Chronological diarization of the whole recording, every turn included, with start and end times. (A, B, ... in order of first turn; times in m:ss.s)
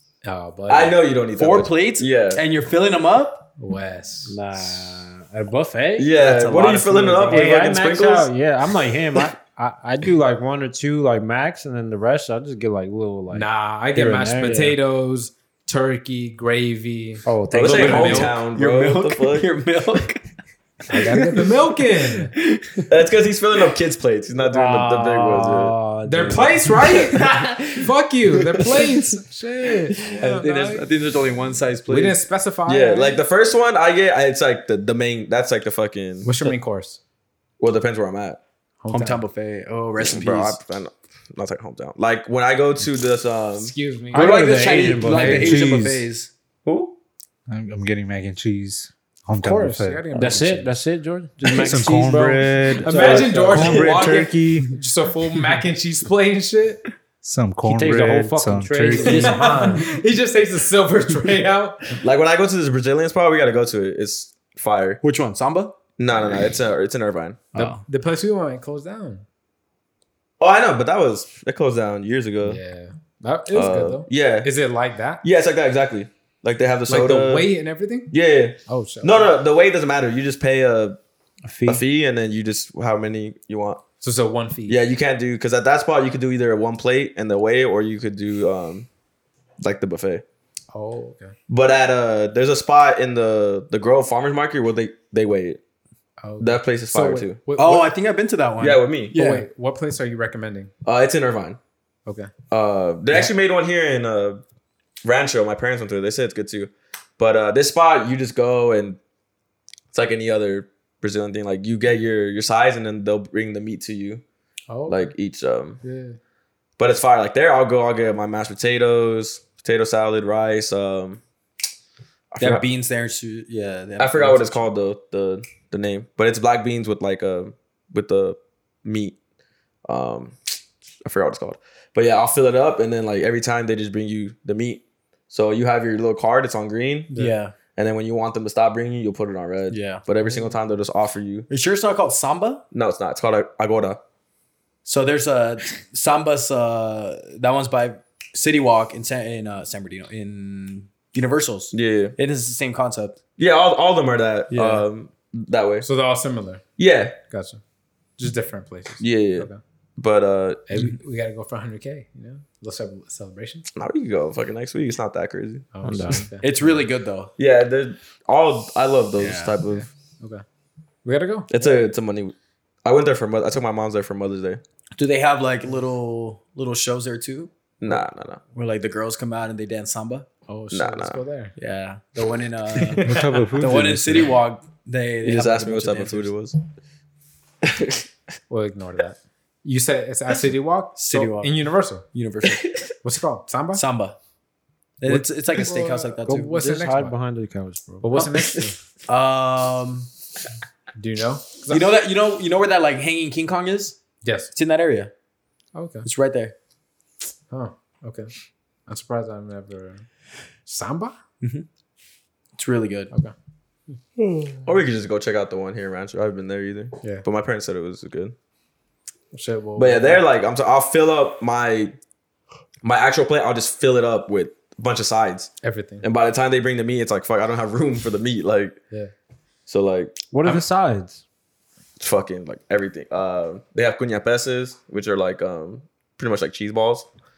0:00.2-0:01.0 A
0:00.7-0:02.4 B
0:01.4-0:03.5 C
0:03.6-0:04.8 A
0:04.3-0:06.2 D
0:06.0-0:08.3 B
0:06.2-0:07.4 C
0:07.2-0:14.8 D
0:13.3-0:18.4 A
0:17.2-0:18.2 D
0:17.5-0:19.5 B
0:17.7-0:20.3 C
0:20.9-0:22.3 A
0:20.9-0:22.9 C
0:22.9-0:25.7 B
0:24.4-0:26.7 D
0:26.0-0:30.9 A
0:27.0-0:27.7 C
0:28.5-0:29.0 C
0:30.0-0:32.2 C
0:31.9-0:33.2 A
0:32.7-0:36.4 B
0:36.2-0:37.0 A
0:37.6-0:38.4 B
0:38.8-0:39.2 A
0:38.9-0:40.6 C
0:40.0-0:43.7 B
0:43.6-0:44.4 A
0:44.1-0:45.8 D
0:44.1-0:46.3 C
0:45.1-0:46.0 E
0:46.6-0:47.0 B
0:47.5-0:50.1 E
0:49.4-0:50.7 A
0:50.1-0:53.7 D
0:51.5-0:54.8 E
0:52.8-0:56.8 A
0:53.0-0:54.5 C
0:57.2-0:59.6 E
0:57.6-0:59.9 D
0:59.0-1:02.0 A
1:02.0-1:05.0 B
1:05.0-1:05.8 C
1:06.0-1:07.4 B
1:07.5-1:07.8 C
1:07.6-1:09.2 A
1:10.4-1:12.6 B
1:12.4-1:15.2 A
1:13.5-1:14.5 B
1:15.2-1:17.5 B
1:16.9-1:18.1 A
1:18.1-1:21.0 B
1:18.7-1:19.3 A
1:21.4-1:21.8 D
1:21.7-1:23.8 B
1:24.0-1:24.8 A
1:24.7-1:28.9 B
1:29.6-1:30.2 B
1:30.7-1:31.3 A
1:31.5-1:35.6 B
1:36.2-1:37.9 A
1:36.4-1:37.4 B
1:37.6-1:39.4 C
1:38.6-1:39.1 B
1:39.1-1:40.7 A
1:40.8-1:41.6 B
1:42.1-1:42.3 A
1:42.5-1:44.4 B
1:45.0-1:49.0 B
1:49.9-1:54.2 B
1:54.7-1:55.1 A
1:54.9-1:55.8 B
1:55.8-1:56.2 A
1:56.8-2:01.2 B
2:02.3-2:02.6 B
2:02.4-2:04.7 C
2:04.0-2:09.2 B
2:09.9-2:17.1 B
2:17.1-2:17.6 C
2:17.7-2:21.5 B
2:19.7-2:20.1 C
2:21.5-2:22.6 C
2:22.7-2:24.0 B
2:24.8-2:33.2 C
2:31.7-2:32.2 B
2:33.4-2:35.9 B
2:34.5-2:34.9 C
2:35.8-2:36.6 A
2:36.8-2:37.2 B
2:37.3-2:37.6 A
2:38.2-2:39.6 A
2:39.0-2:40.6 B
2:40.7-2:43.7 A
2:43.8-2:45.7 B
2:45.7-2:46.8 A
2:45.8-2:46.3 D
2:46.4-2:47.3 C
2:47.4-2:49.9 B
2:49.2-2:49.5 C
2:49.7-2:50.4 A
2:51.0-2:51.5 A
2:51.5-2:54.6 B
2:55.0-2:57.9 C
2:57.8-2:58.4 B
2:58.5-3:00.3 C
3:00.5-3:01.5 A
3:00.7-3:01.2 B
3:01.6-3:06.3 C
3:02.8-3:03.2 A
3:03.0-3:04.3 E
3:05.2-3:06.6 B
3:07.7-3:08.0 B
3:08.5-3:12.1 A
3:11.0-3:11.5 C
3:12.1-3:12.7 C
3:13.0-3:13.8 A
3:13.7-3:14.2 C
3:15.0-3:16.8 C
3:15.1-3:17.2 A
3:16.3-3:18.2 D
3:18.0-3:18.8 A
3:19.1-3:20.1 C
3:21.0-3:21.9 A
3:21.7-3:24.0 C
3:24.2-3:24.5 A
3:24.5-3:25.1 C
3:25.7-3:26.1 A
3:26.0-3:26.5 C
3:27.5-3:28.3 A
3:28.9-3:30.1 A
3:30.7-3:31.2 A
3:31.4-3:31.7 C
3:32.6-3:33.1 C
3:34.5-3:38.4 B
3:39.3-3:40.2 A
3:39.8-3:42.0 B
3:42.8-3:48.8 B
3:45.6-3:46.1 A
3:49.7-3:50.6 B
3:50.3-3:51.2 D
3:52.0-3:57.1 B